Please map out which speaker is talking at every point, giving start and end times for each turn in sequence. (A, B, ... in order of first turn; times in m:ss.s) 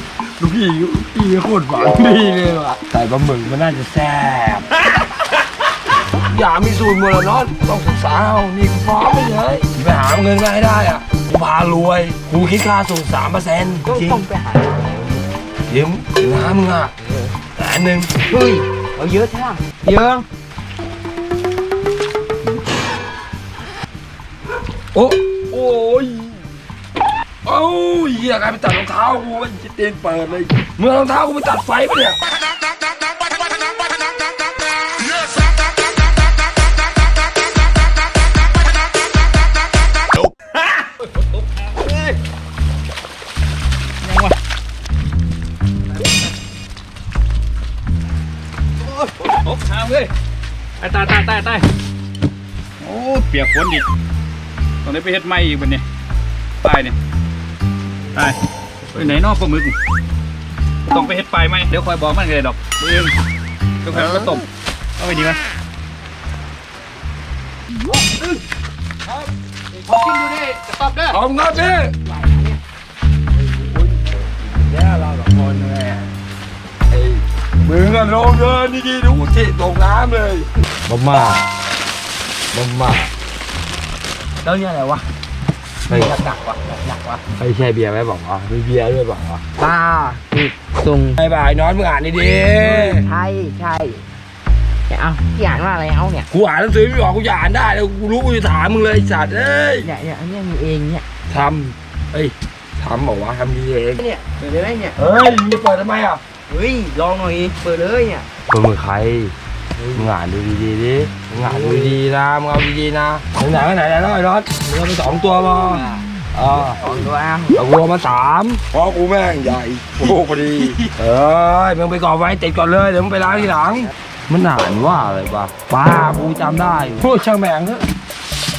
0:00.4-0:04.8 A
0:06.1-0:14.2 A
0:13.8-0:15.2 B
0:15.7-0:16.9 A
0:17.5-0:18.1 A
0:18.3-0:20.2 B
0:24.9-0:26.4 A
0:27.4-0:32.2 A
0:41.0-0:42.2 C
0:44.0-0:44.3 C
0:48.8-0:50.1 C
0:50.8-0:51.7 C
0:52.8-0:53.8 C
0:54.8-0:55.8 C
0:56.6-0:57.0 C
0:58.1-0:59.8 C
1:00.9-1:03.1 C
1:03.8-1:04.4 C
1:05.0-1:05.4 C
1:09.7-1:11.2 C
1:11.1-1:11.9 A
1:12.0-1:12.6 B
1:13.4-1:16.1 A
1:16.9-1:21.4 A
1:22.5-1:23.1 A
1:24.4-1:25.0 B
1:25.9-1:27.2 B
1:25.9-1:26.1 A
1:27.3-1:29.4 A
1:29.6-1:31.2 B
1:31.2-1:33.0 A
1:32.6-1:34.1 B
1:34.9-1:36.3 B
1:36.3-1:39.9 A
1:39.8-1:41.0 B
1:41.3-1:44.0 A
1:44.0-1:45.0 B
1:45.0-1:46.2 A
1:46.5-1:48.2 B
1:48.5-1:49.3 A
1:49.8-1:50.1 B
1:49.9-1:56.8 A
1:51.3-1:52.0 B
1:55.7-1:57.6 B
1:57.5-2:07.8 A
2:00.6-2:00.9 B